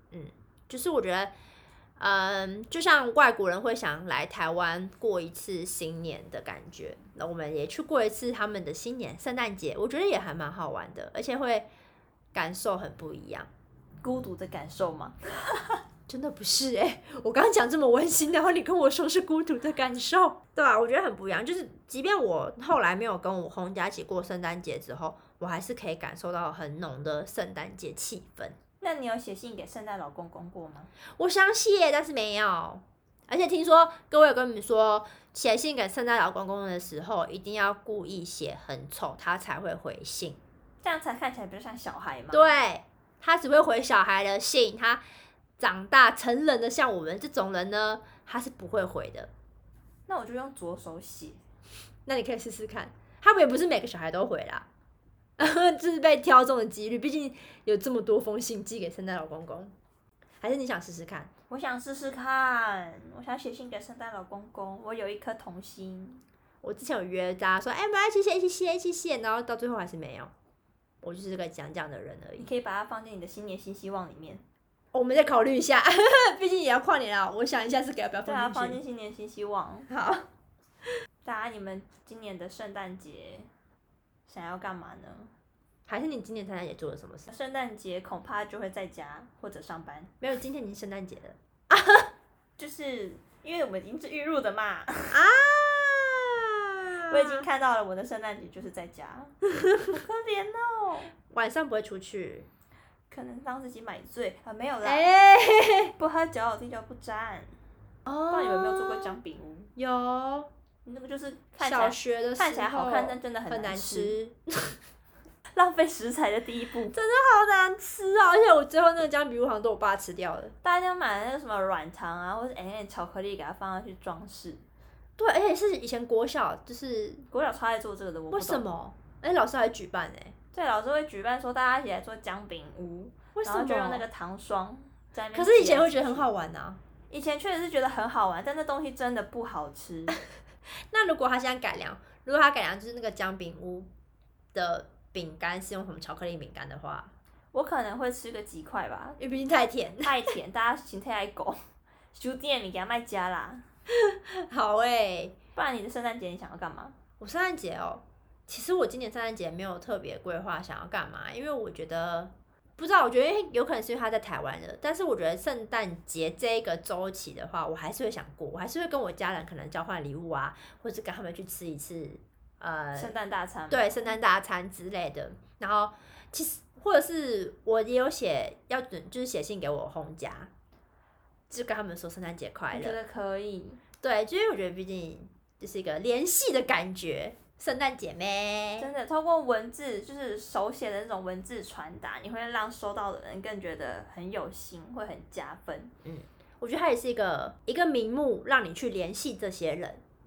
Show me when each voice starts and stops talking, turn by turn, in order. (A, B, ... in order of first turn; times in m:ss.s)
0:00.1-0:01.3 A
0:02.0-0:11.7 A
0:12.3-0:13.5 A
0:14.0-0:15.8 B
0:16.1-0:28.6 A
0:28.8-0:30.9 B
0:31.2-0:40.4 A
0:40.8-0:42.5 B
0:42.3-0:45.0 A
0:45.6-0:49.3 A
0:50.1-0:51.4 B
0:52.1-0:54.7 A
0:55.4-0:59.7 A
1:00.4-1:01.3 A
1:01.5-1:06.2 B
1:06.6-1:10.3 A
1:11.0-1:12.5 A
1:12.4-1:14.4 B
1:14.9-1:18.8 A
1:18.2-1:19.9 B
1:19.9-1:20.3 A
1:21.2-1:23.5 B
1:24.3-1:25.3 B
1:25.9-1:27.3 A
1:27.3-1:30.1 B
1:30.2-1:32.1 A
1:32.6-1:35.2 B
1:35.1-1:37.5 A
1:37.1-1:41.1 B
1:39.6-1:39.9 A
1:41.3-1:42.5 A
1:43.1-1:45.1 B
1:44.8-1:45.9 A
1:46.0-1:47.5 B
1:48.1-1:49.2 A
1:48.3-1:49.7 B
1:49.8-1:50.5 A
1:50.8-1:54.2 B
1:51.6-1:54.8 A
1:55.6-1:57.0 B
1:56.9-2:00.5 A
2:00.6-2:04.6 B
2:05.2-2:07.2 A
2:07.3-2:08.7 B
2:08.3-2:10.4 A
2:10.5-2:16.3 B
2:13.4-2:14.0 A
2:15.3-2:16.8 A
2:17.1-2:20.2 B
2:20.9-2:23.9 A
2:24.5-2:27.1 A
2:27.5-2:29.2 B
2:29.2-2:30.3 A
2:30.0-2:31.6 B
2:32.1-2:33.6 B
2:33.9-2:35.4 A
2:35.6-2:37.0 B
2:37.2-2:53.2 A
2:52.9-2:54.2 B
2:53.7-3:00.5 A
3:01.5-3:03.0 A
3:02.7-3:03.8 B
3:04.0-3:08.9 A
3:08.8-3:15.9 B
3:16.0-3:20.0 A